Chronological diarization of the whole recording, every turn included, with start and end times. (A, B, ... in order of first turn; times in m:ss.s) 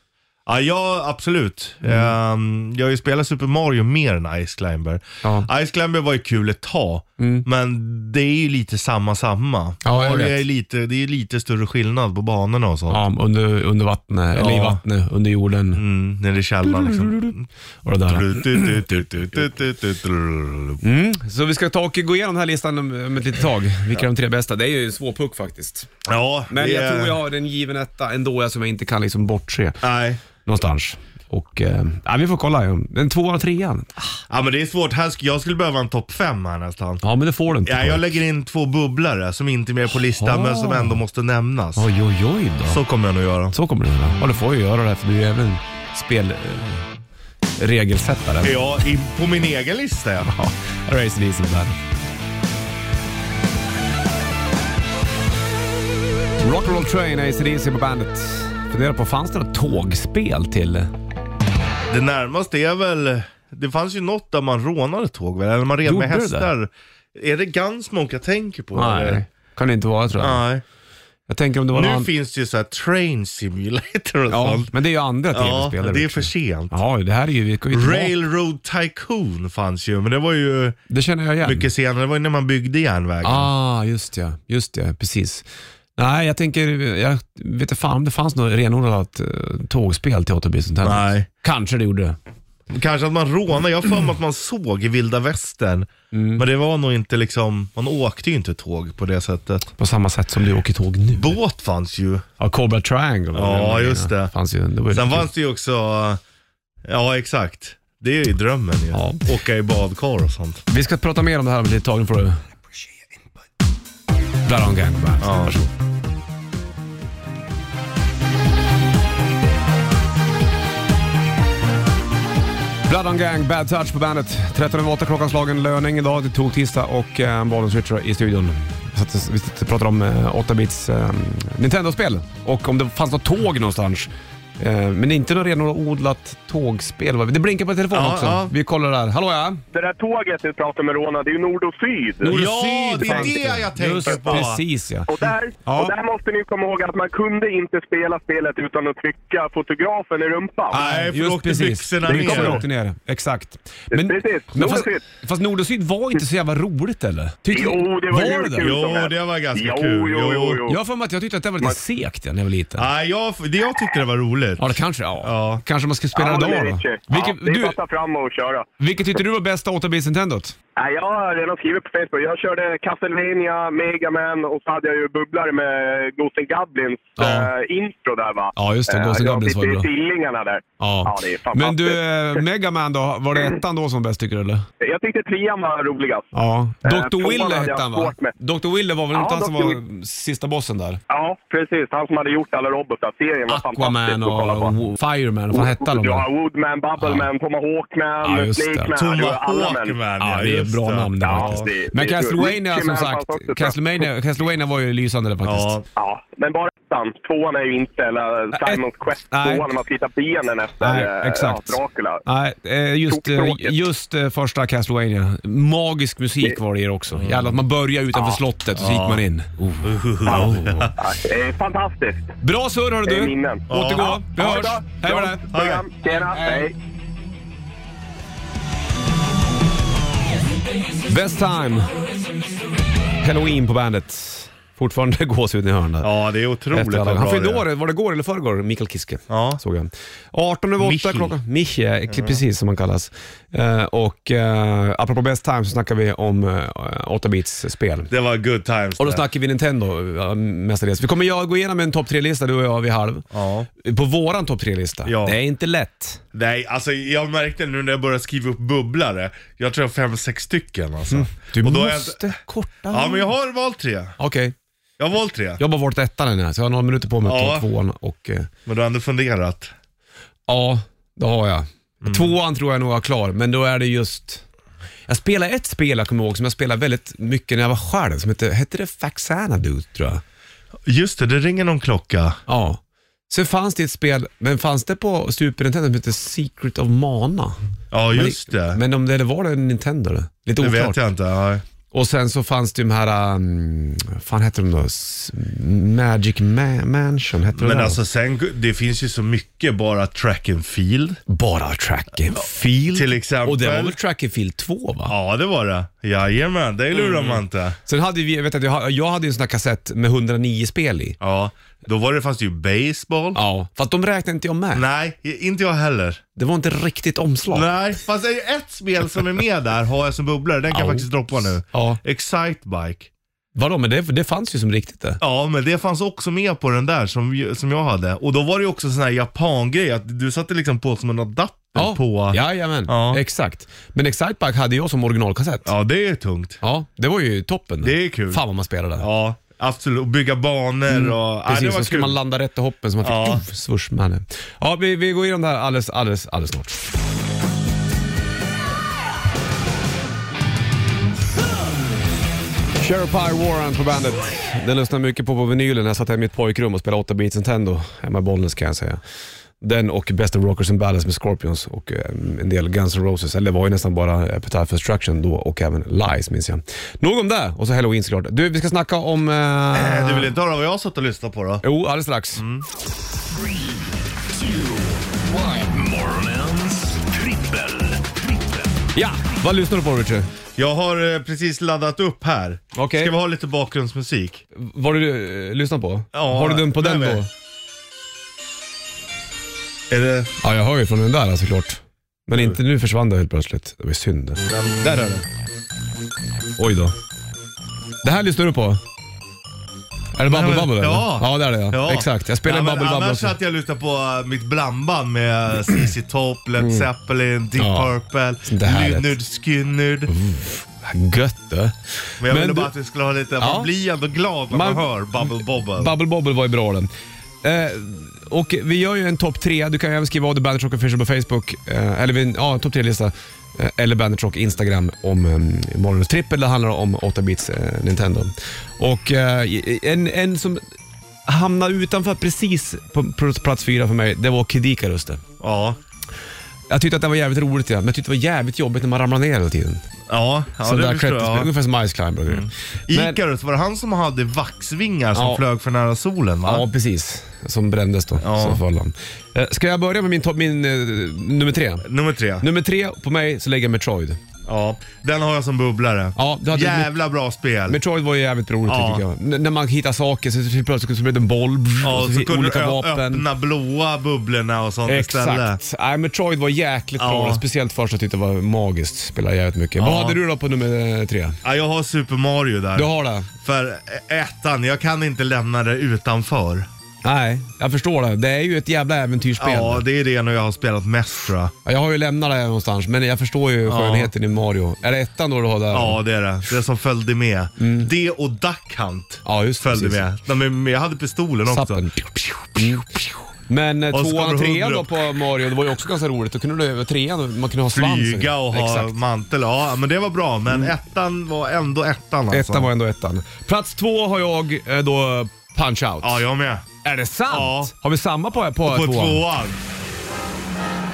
0:00.5-0:13.0 A
0:01.8-0:02.1 B
0:05.2-0:05.5 B
0:07.2-0:07.5 B
0:09.8-0:10.4 B
0:12.9-0:15.8 B
0:14.3-0:14.8 A
0:15.8-0:17.5 A
0:16.6-0:18.8 B
0:18.1-0:20.8 A
0:20.8-0:25.9 B
0:26.1-0:27.2 A
0:26.5-0:29.8 B
0:29.8-0:30.2 A
0:30.4-0:34.0 B
0:34.3-0:37.0 A
0:37.0-0:38.1 B
0:37.6-0:41.9 A
0:40.2-0:41.0 B
0:41.8-0:42.8 B
0:42.7-0:43.6 A
0:43.5-0:46.9 B
0:47.6-0:48.6 B
0:48.4-0:50.3 A
0:50.2-0:51.8 B
0:56.4-1:00.9 B
1:01.9-1:09.2 A
1:05.8-1:06.5 B
1:08.7-1:10.4 B
1:10.2-1:10.6 A
1:11.3-1:12.1 B
1:11.7-1:14.7 A
1:14.3-1:18.1 B
1:15.3-1:16.8 A
1:17.7-1:20.8 A
1:20.9-1:21.7 B
1:21.4-1:23.5 A
1:23.2-1:25.4 B
1:26.0-1:32.2 B
1:30.8-1:31.3 A
1:32.7-1:39.7 A
1:36.1-1:36.4 B
1:39.8-1:41.3 B
1:41.1-1:42.2 A
1:42.4-1:45.3 B
1:43.4-1:44.3 A
1:44.9-1:46.2 A
1:46.9-1:50.6 A
1:48.9-1:49.3 B
1:50.7-1:52.4 B
1:54.4-1:55.7 B
1:55.2-1:55.6 A
2:02.9-2:19.6 B
2:17.9-2:18.5 A
2:19.7-2:22.4 C
2:22.2-2:26.0 B
2:22.3-2:24.6 A
2:24.1-2:24.5 C
2:25.1-2:30.8 C
2:30.7-2:32.6 A
2:30.7-2:38.7 B
2:32.1-2:32.6 C
2:33.9-2:35.0 C
2:37.5-2:40.8 C
2:38.6-2:40.6 A
2:40.7-2:42.9 B
2:42.8-2:45.6 A
2:44.6-2:47.8 B
2:46.1-2:48.7 C
2:48.8-2:50.6 B
2:50.8-3:02.4 C
2:57.2-2:57.5 B
2:58.6-2:59.9 B
3:00.8-3:04.7 B
3:04.8-3:06.3 C
3:06.3-3:11.0 B
3:06.8-3:08.3 C
3:09.1-3:09.8 C
3:11.1-3:14.7 C
3:13.5-3:16.3 B
3:15.5-3:20.0 C
3:17.0-3:17.3 B
3:18.2-3:18.9 B
3:19.0-3:21.7 A
3:20.2-3:25.8 B
3:21.2-3:23.8 C
3:25.4-3:25.8 A
3:26.0-3:32.2 C
3:28.5-3:29.7 B
3:30.8-3:40.9 B
3:33.1-3:33.8 C
3:37.1-3:37.6 A
3:38.8-3:39.2 A
3:39.8-3:40.9 A
3:40.3-3:42.3 C
3:42.4-3:45.5 B
3:43.1-3:46.7 C
3:43.7-3:44.2 A
3:45.5-3:45.8 A
3:46.1-3:46.7 B
3:51.1-3:52.0 B
3:53.2-3:56.1 B
3:56.0-3:57.6 A
3:56.7-4:08.1 B
3:59.3-3:59.6 A
4:00.8-4:01.4 A
4:02.1-4:02.4 A
4:08.1-4:09.2 A
4:09.0-4:13.3 B
4:13.3-4:13.7 A
4:13.8-4:16.2 B
4:15.1-4:15.4 A
4:16.3-4:22.3 A
4:21.1-4:23.3 B
4:22.9-4:24.2 A
4:24.2-4:24.6 B
4:25.0-4:25.6 A
4:25.6-4:28.5 B
4:27.2-4:27.7 A
4:28.7-4:29.7 A
4:30.5-4:34.4 B
4:32.0-4:32.3 A
4:35.1-4:40.2 B
4:40.9-4:42.4 A
4:42.5-4:47.6 B
4:47.9-4:48.8 A
4:48.1-4:51.0 B
4:50.6-4:51.6 A
4:51.9-4:58.0 B
4:57.6-5:01.2 A
5:01.3-5:05.2 B
5:02.9-5:04.0 A
5:05.1-5:07.8 A
5:06.9-5:11.2 B
5:11.2-5:13.4 A
5:13.4-5:14.8 B
5:14.7-5:16.2 A
5:16.4-5:17.7 B
5:17.5-5:23.1 A
5:20.7-5:21.1 B
5:21.7-5:22.0 B
5:23.6-5:25.2 B
5:25.2-5:33.2 A
5:31.8-5:35.7 B
5:35.6-5:36.6 A
5:36.6-5:39.1 B
5:37.8-5:38.4 A
5:39.0-5:42.2 A
5:40.9-5:46.9 B
5:43.0-5:43.4 A
5:52.8-5:59.0 B
5:59.6-6:10.3 B
6:09.7-6:11.6 A
6:11.6-6:12.4 B
6:12.4-6:12.7 A
6:14.4-6:18.8 D
6:18.9-6:20.3 B
6:20.6-6:24.4 A
6:22.8-6:23.1 B
6:24.5-6:27.3 B
6:26.1-6:27.2 A
6:29.9-6:30.3 A
6:30.4-6:35.2 B
6:32.3-6:32.6 A
6:34.5-6:35.2 A
6:36.6-6:37.0 B
6:38.0-6:38.8 B
6:40.2-6:43.4 B
6:40.3-6:50.1 A
6:46.6-6:46.9 B
6:47.6-6:47.9 B
6:48.4-6:49.2 B
6:50.1-6:52.7 B
6:52.2-6:55.9 A
6:53.4-6:53.7 B
6:54.5-6:54.9 B
6:55.8-6:56.9 B
6:57.4-7:10.6 B
7:11.3-7:15.2 B
7:15.4-7:15.8 A
7:16.7-7:19.8 B
7:20.1-7:21.5 A
7:20.6-7:23.2 B
7:22.3-7:26.7 A
7:25.1-7:25.4 B
7:26.5-7:31.9 B
7:28.2-7:28.6 A
7:31.8-7:32.4 A
7:32.4-7:34.2 B
7:34.5-7:37.8 A
7:36.2-7:36.9 B
7:37.7-7:43.2 B
7:38.7-7:39.0 A
7:41.8-7:45.6 A
7:44.9-7:51.4 B
7:47.0-7:47.4 A
7:49.8-7:50.2 A
7:51.4-7:56.7 A
7:52.8-7:53.3 B
7:57.0-7:59.8 B
7:59.4-8:01.5 A
8:01.6-8:06.0 B
8:03.7-8:04.1 A
8:05.7-8:13.0 A
8:07.6-8:07.9 B
8:09.2-8:10.0 B
8:11.5-8:12.9 B
8:13.5-8:19.0 B
8:13.9-8:15.0 A
8:17.7-8:22.7 A
8:22.3-8:26.2 B
8:26.0-8:26.7 A
8:26.8-8:29.2 B
8:27.3-8:27.7 A
8:28.7-8:29.6 A